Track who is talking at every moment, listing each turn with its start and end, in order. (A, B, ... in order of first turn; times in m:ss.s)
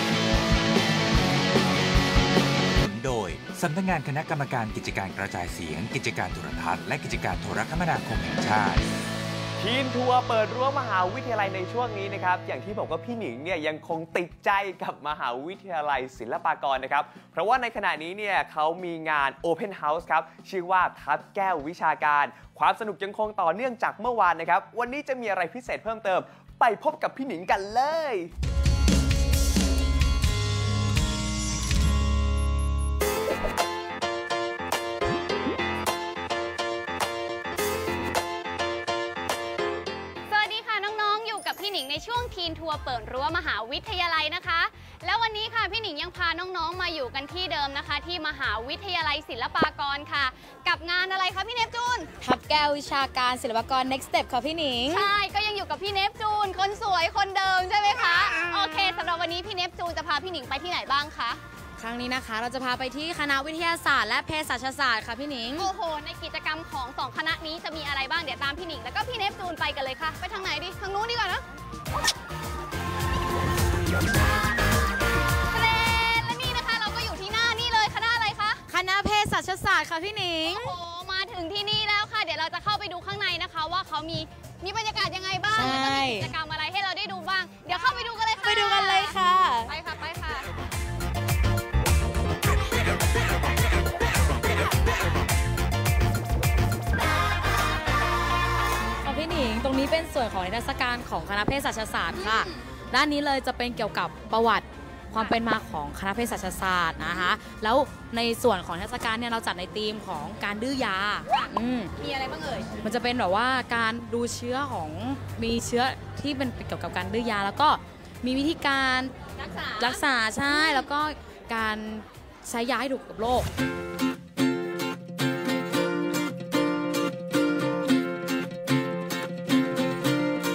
0:02.8-0:08.9 A
0:09.6-0:28.3 B
0:40.3-0:52.1 C
0:52.2-0:55.1 D
0:54.9-1:01.4 C
0:58.3-0:58.9 D
1:01.8-1:05.7 D
1:05.6-1:11.4 C
1:15.5-1:18.6 C
1:18.7-1:20.8 D
1:20.4-1:29.2 C
1:25.5-1:26.3 D
1:28.4-1:29.7 D
1:29.7-1:30.5 C
1:39.0-1:51.9 D
1:42.1-1:42.6 C
1:47.0-1:47.3 C
1:51.3-1:52.7 C
1:52.8-1:59.1 D
1:59.4-2:00.9 C
1:59.8-2:03.5 D